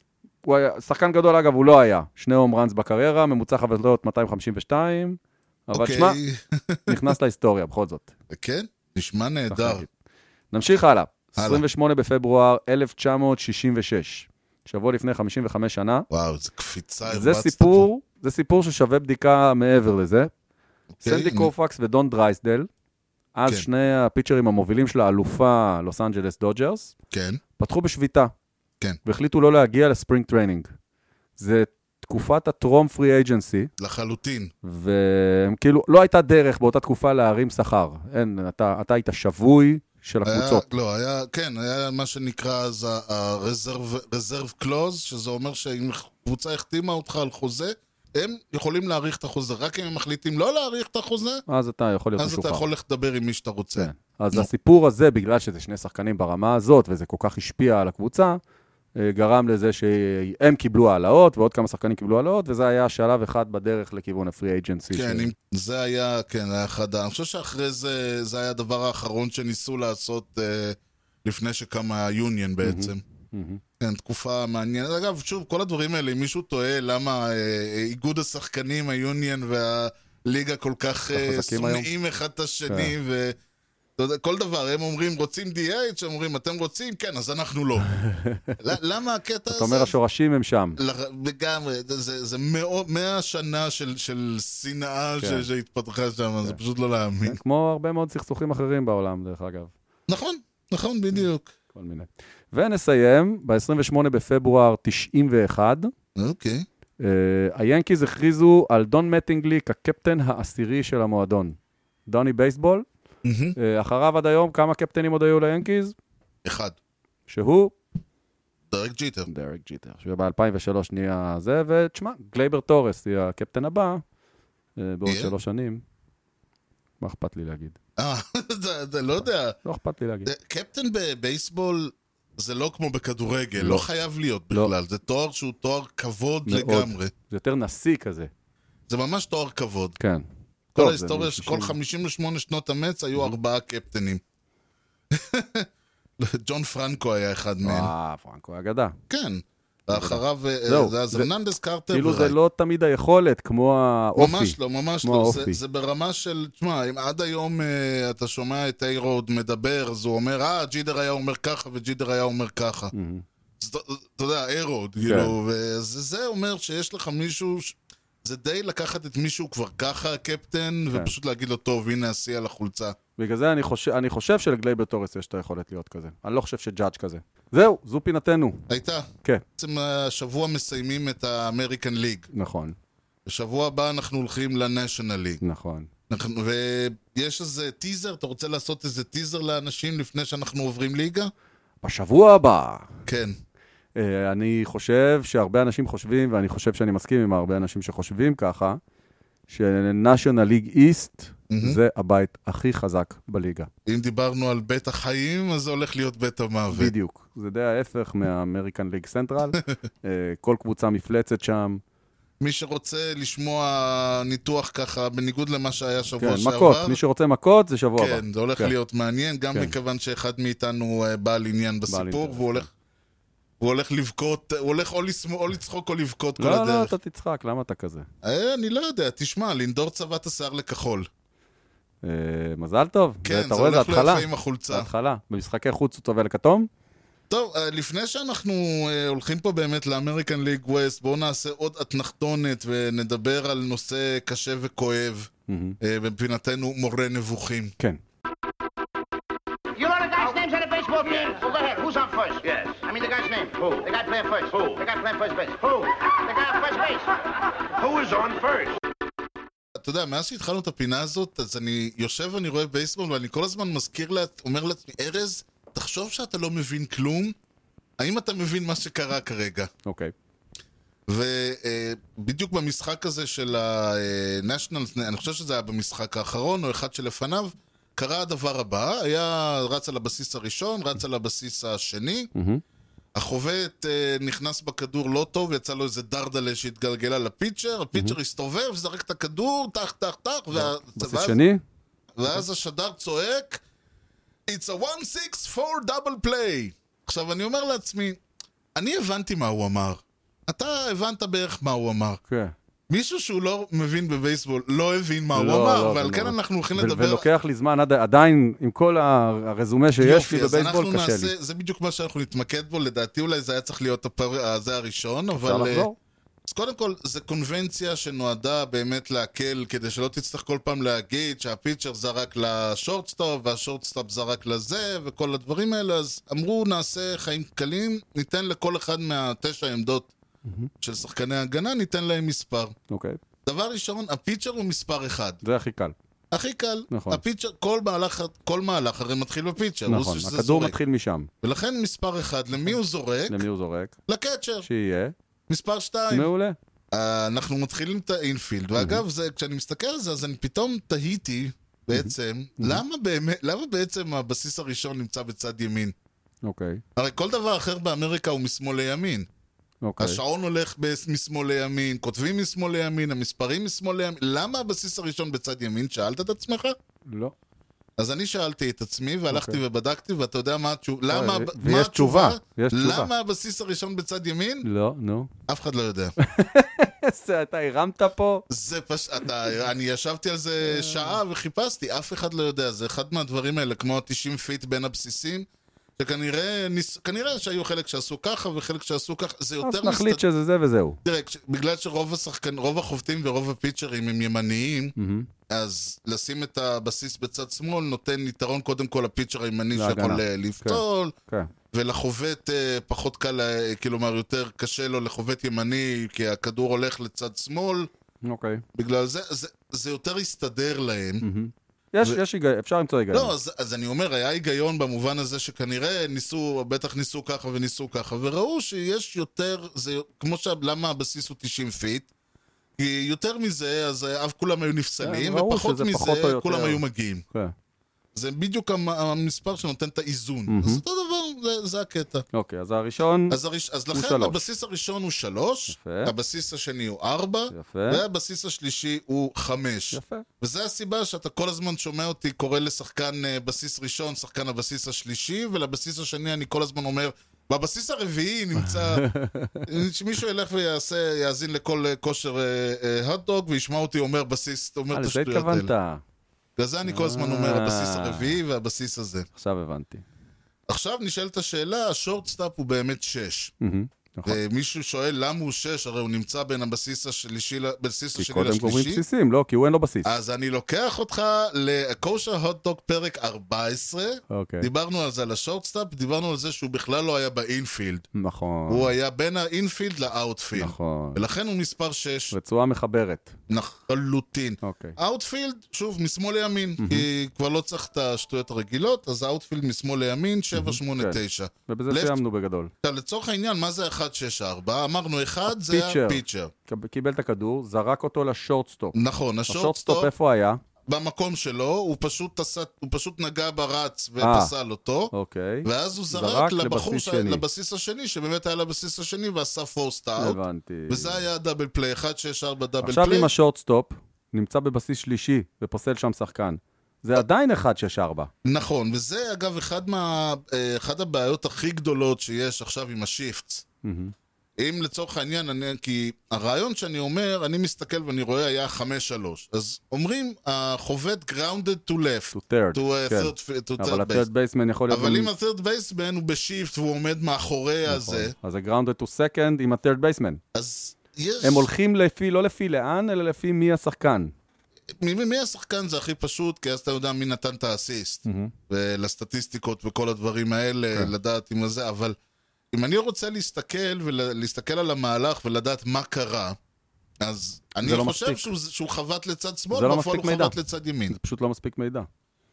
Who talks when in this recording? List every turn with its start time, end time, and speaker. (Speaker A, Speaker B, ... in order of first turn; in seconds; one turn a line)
Speaker A: 0.4-6.2
Speaker B: 5.7-7.0
Speaker A: 6.9-8.1
Speaker B: 8.3-9.9
Speaker A: 9.5-9.9
Speaker A: 10.5-16.1
Speaker B: 11.4-11.6
Speaker B: 16.1-17.9
Speaker A: 17.1-20.3
Speaker A: 21.0-22.7
Speaker B: 21.0-21.5
Speaker A: 23.4-26.9
Speaker B: 27.1-27.4
Speaker A: 27.6-28.3
Speaker A: 29.0-30.7
Speaker A: 31.4-33.7
Speaker B: 33.8-34.5
Speaker A: 34.6-40.6
Speaker B: 40.2-51.4
Speaker A: 51.5-52.6
Speaker B: 52.2-54.5
Speaker A: 53.8-58.4
Speaker A: 59.0-65.3
Speaker B: 64.9-73.0
Speaker A: 72.6-73.6
Speaker B: 73.8-83.4
Speaker A: 81.2-81.9
Speaker B: 84.0-87.9
Speaker A: 87.9-88.6
Speaker B: 88.6-89.9
Speaker A: 89.5-90.8
Speaker B: 90.8-97.4
Speaker A: 95.2-95.5
Speaker A: 97.2-99.7
Speaker B: 100.1-101.5
Speaker A: 101.7-105.9
Speaker B: 106.2-106.7
Speaker A: 107.0-112.8
Speaker B: 113.2-113.6
Speaker A: 113.6-115.9
Speaker B: 116.4-116.8
Speaker A: 117.3-117.8
Speaker B: 118.7-119.3
Speaker A: 119.3-124.0
Speaker A: 124.8-125.8
Speaker B: 125.1-125.3
Speaker A: 127.0-127.8
Speaker B: 128.0-129.6
Speaker A: 129.6-130.3
Speaker B: 130.3-137.1
Speaker A: 133.6-133.8
Speaker A: 136.5-138.3
Speaker B: 138.9-140.0
Speaker A: 140.0-140.2
Speaker B: 140.8-144.2
Speaker A: 140.8-141.8
Speaker B: 145.1-145.7
Speaker B: 146.2-147.9
Speaker A: 147.6-149.0
Speaker B: 149.1-152.3
Speaker A: 149.9-151.3
Speaker A: 151.9-155.6
Speaker B: 154.2-162.9
Speaker A: 162.9-163.2
Speaker B: 163.6-172.9
Speaker A: 165.0-165.3
Speaker A: 173.2-178.7
Speaker B: 178.7-182.3
Speaker A: 182.3-182.8
Speaker B: 183.3-185.4
Speaker A: 185.4-185.9
Speaker B: 186.1-191.3
Speaker A: 191.8-192.9
Speaker B: 193.1-193.3
Speaker A: 193.9-198.8
Speaker A: 199.5-203.7
Speaker B: 201.5-201.8
Speaker B: 203.8-206.9
Speaker A: 206.7-211.8
Speaker B: 212.4-217.0
Speaker A: 216.2-218.7
Speaker B: 218.0-222.7
Speaker A: 221.9-222.7
Speaker B: 223.6-226.9
Speaker A: 226.4-228.1
Speaker B: 228.2-231.1
Speaker A: 232.0-236.7
Speaker B: 233.2-234.9
Speaker B: 237.3-247.7
Speaker A: 245.5-245.8
Speaker C: 249.7-258.8
Speaker B: 259.8-267.3
Speaker B: 268.0-269.7
Speaker A: 269.8-270.1
Speaker B: 271.1-282.3
Speaker A: 282.3-282.6
Speaker B: 283.1-291.4
Speaker A: 290.6-291.6
Speaker B: 292.2-293.6
Speaker B: 294.5-298.2
Speaker B: 298.8-302.2
Speaker A: 302.3-302.5
Speaker B: 302.9-307.3
Speaker A: 305.3-311.3
Speaker B: 310.0-315.9
Speaker A: 315.3-315.9
Speaker B: 316.4-330.1
Speaker B: 330.8-332.8
Speaker A: 332.9-333.2
Speaker B: 333.4-335.4
Speaker A: 335.4-335.9
Speaker B: 336.3-340.8
Speaker A: 336.9-337.2
Speaker A: 339.9-341.3
Speaker B: 341.4-343.4
Speaker A: 343.3-343.9
Speaker B: 344.1-344.7
Speaker A: 344.6-345.1
Speaker B: 345.5-346.3
Speaker A: 346.1-346.6
Speaker B: 346.9-355.9
Speaker A: 348.8-349.0
Speaker A: 351.9-352.8
Speaker A: 356.4-356.8
Speaker B: 356.9-359.3
Speaker A: 359.8-360.2
Speaker B: 360.0-366.8
Speaker A: 367.1-367.3
Speaker B: 368.0-374.7
Speaker A: 369.3-369.6
Speaker A: 371.1-373.1
Speaker A: 374.6-375.3
Speaker B: 375.5-376.1
Speaker A: 376.2-378.4
Speaker B: 378.5-385.4
Speaker A: 380.7-381.2
Speaker B: 386.0-390.2
Speaker A: 389.6-391.0
Speaker B: 391.0-394.9
Speaker A: 394.9-395.3
Speaker B: 395.5-401.1
Speaker A: 399.7-401.5
Speaker B: 401.7-407.9
Speaker A: 408.2-408.6
Speaker B: 408.8-411.2
Speaker A: 411.2-413.3
Speaker B: 413.1-422.1
Speaker B: 422.8-427.2
Speaker A: 425.0-426.8
Speaker B: 428.1-432.3
Speaker A: 430.5-430.8
Speaker A: 432.3-433.4
Speaker B: 433.3-449.1
Speaker A: 433.9-434.4
Speaker A: 435.7-436.1
Speaker A: 437.5-438.0
Speaker A: 439.9-440.3
Speaker A: 448.6-449.7
Speaker B: 449.7-455.7
Speaker A: 454.9-456.0
Speaker B: 456.6-459.3
Speaker A: 456.8-458.4
Speaker A: 459.3-460.0
Speaker B: 460.7-463.5
Speaker A: 463.6-464.4
Speaker B: 464.3-469.0
Speaker A: 468.2-470.1
Speaker B: 470.1-478.1
Speaker A: 474.3-474.7
Speaker A: 478.1-478.9
Speaker B: 478.7-482.3
Speaker A: 480.6-481.2
Speaker A: 482.3-483.3
Speaker B: 483.5-492.2
Speaker A: 484.6-485.0
Speaker A: 486.8-487.1
Speaker A: 490.5-492.7
Speaker B: 492.8-496.5
Speaker A: 495.5-499.0
Speaker B: 498.9-500.1
Speaker A: 499.5-500.6
Speaker B: 500.9-505.1
Speaker A: 504.2-504.5
Speaker A: 505.1-507.4
Speaker B: 505.6-513.3
Speaker A: 510.2-511.2
Speaker A: 512.8-518.3
Speaker B: 518.4-523.6
Speaker A: 523.8-524.1
Speaker B: 524.6-534.2
Speaker A: 532.3-535.3
Speaker B: 534.9-538.3
Speaker A: 537.9-540.4
Speaker B: 540.5-541.7
Speaker A: 541.4-544.3
Speaker B: 545.0-552.1
Speaker A: 548.2-548.5
Speaker B: 552.7-556.6
Speaker B: 557.2-561.1
Speaker A: 557.8-558.5
Speaker A: 559.7-560.5
Speaker A: 561.1-562.1